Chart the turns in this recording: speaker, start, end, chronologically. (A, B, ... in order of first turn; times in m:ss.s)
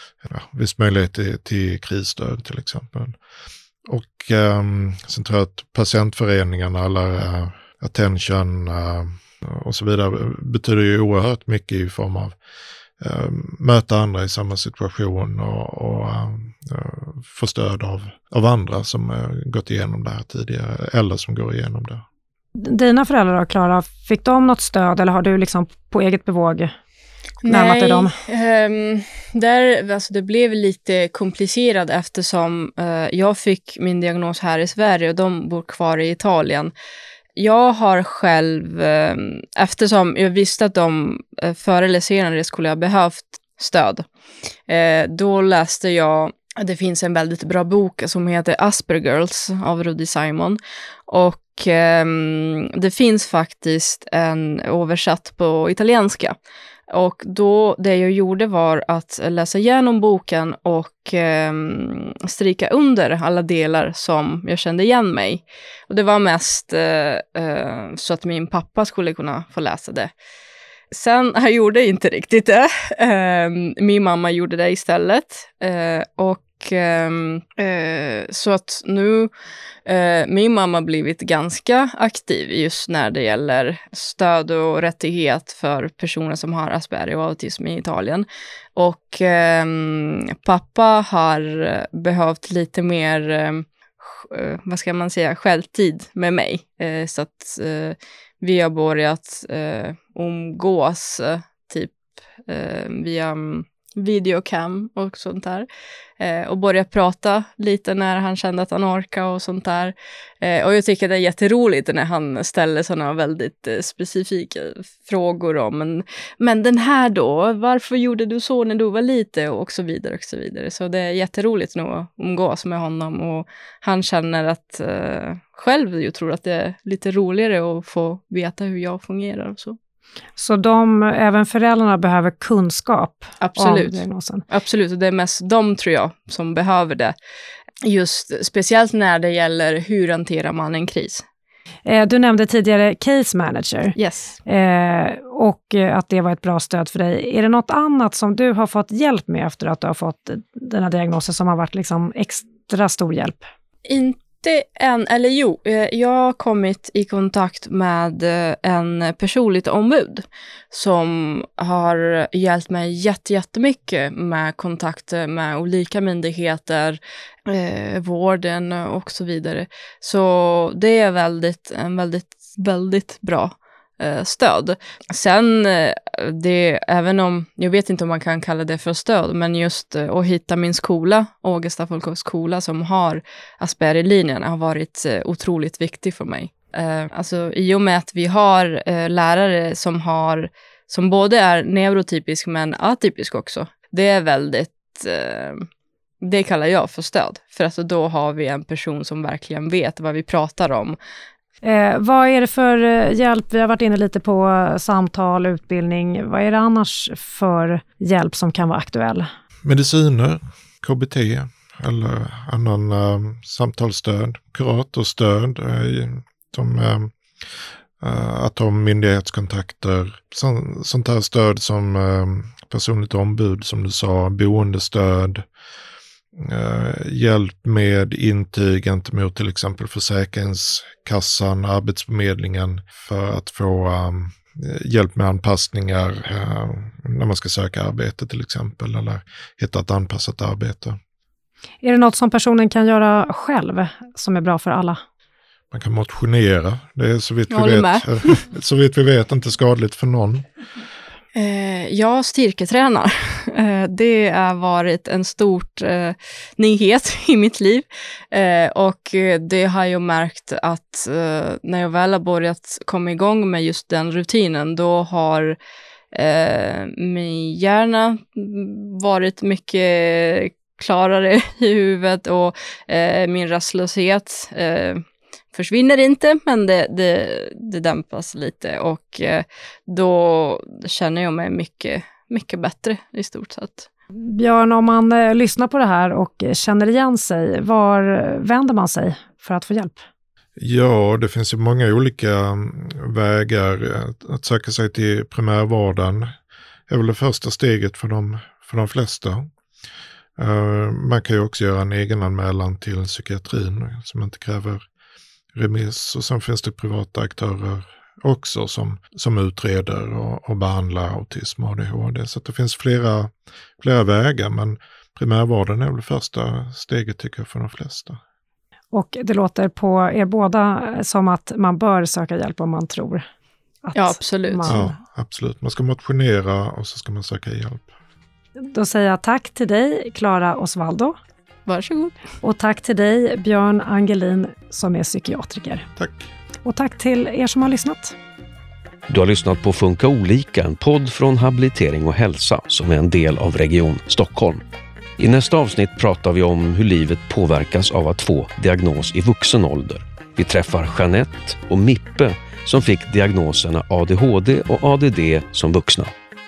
0:00.2-0:03.2 A
0:03.8-0:12.4 A
0:13.0-0:22.0 A
0:22.6-0:26.7 B
0:27.4-0:36.7 C
0:27.5-0:28.1 B
0:37.4-0:44.0 C
0:44.7-0:50.6 C
0:51.1-0:56.4 C
0:56.9-1:10.1 C
1:10.9-1:19.3 C
1:19.9-1:42.0 C
1:42.5-1:45.7 C
1:46.2-2:09.8 C
2:10.4-2:14.4 B
2:13.4-2:17.2 C
2:17.8-2:21.2 C
2:21.9-2:24.0 B
2:24.0-2:24.4 C
2:24.5-2:33.4 B
2:33.9-3:15.7 C
3:16.2-3:21.0 C
3:21.6-3:29.3 B
3:29.6-3:37.1 A
3:38.0-3:45.4 A
3:46.4-4:01.0 A
4:01.8-4:05.0 B
4:05.7-4:10.5 A
4:07.5-4:08.4 C
4:11.4-4:25.6 C
4:26.1-4:35.0 C
4:35.5-4:43.9 C
4:44.2-4:50.0 B
4:50.6-4:56.3 A
4:56.9-4:59.5 A
5:00.4-5:04.8 A
5:05.5-5:18.2 A
5:18.9-5:23.2 B
5:23.8-5:25.0 B
5:24.0-5:24.8 C
5:24.7-5:27.9 A
5:28.6-5:31.2 B
5:31.7-5:32.2 C
5:32.4-5:35.9 B
5:36.0-5:36.3 A
5:36.6-5:38.2 B
5:39.1-5:44.6 D
5:45.2-5:56.1 D